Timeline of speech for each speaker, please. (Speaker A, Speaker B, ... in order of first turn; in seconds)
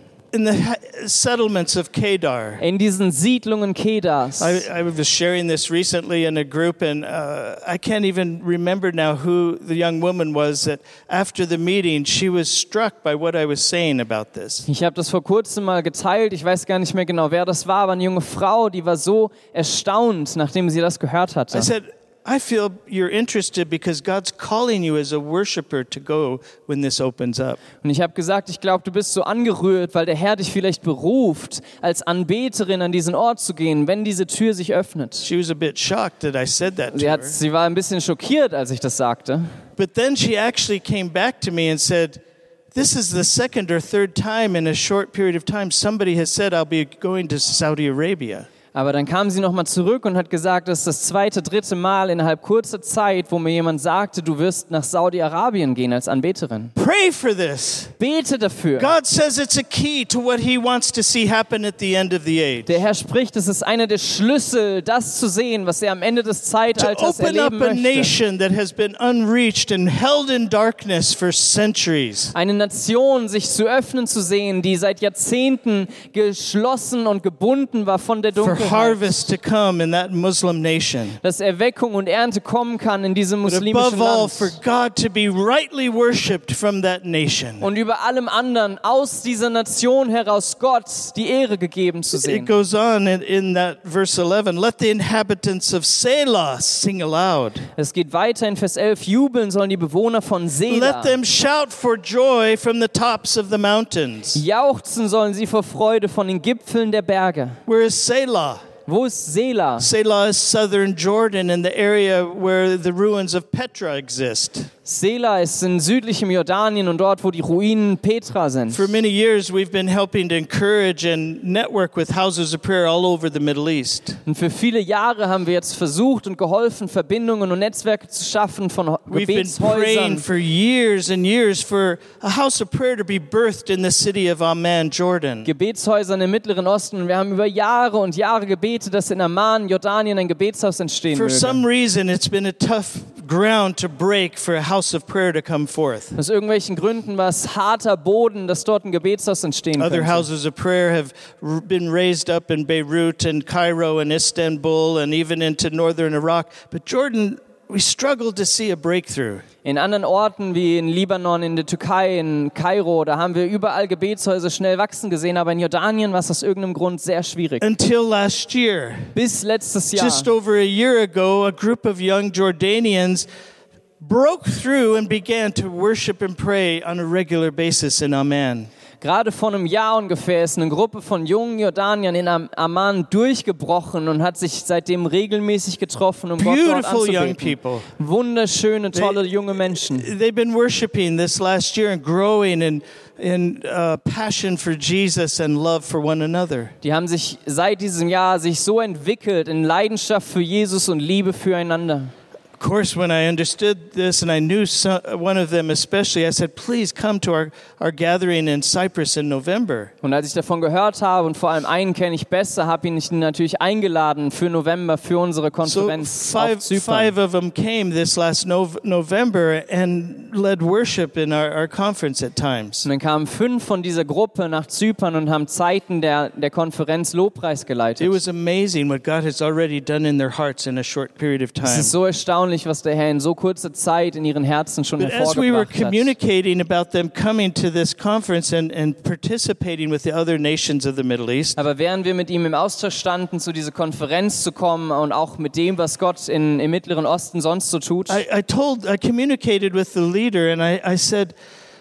Speaker A: 0.3-2.6, 4.4-14.7, 21.5-27.6, 35.2-37.4, 39.8-42.2, 42.7-48.5, 56.8-57.9, 58.8-62.8, 66.7-72.3, 78.4-81.2, 83.5-87.7, 92.1-97.7, 100.7-104.4, 107.7-108.6, 109.8-114.7, 118.7-124.2, 129.1-135.5, 141.1-146.1, 149.8-159.4, 167.6-169.1, 169.9-173.3, 174.0-178.7, 186.4-187.9, 188.9-196.7, 202.6-209.9, 215.6-222.8, 228.0-231.9, 235.0-241.6, 248.1-251.3
Speaker B: 2.6-4.6, 14.7-21.7, 27.8-35.3, 36.9-39.5, 48.7-56.7, 58.0-58.9, 62.6-68.1, 72.3-79.0, 81.2-84.5, 87.6-92.5, 97.8-101.2, 104.3-107.6, 108.8-109.9, 114.8-118.8, 124.2-130.2, 135.4-141.6, 146.1-150.2, 159.6-167.6, 169.1-170.3, 179.0-190.1, 196.8-202.1, 210.0-217.1, 222.8-228.2, 231.6-236.1, 241.6-248.2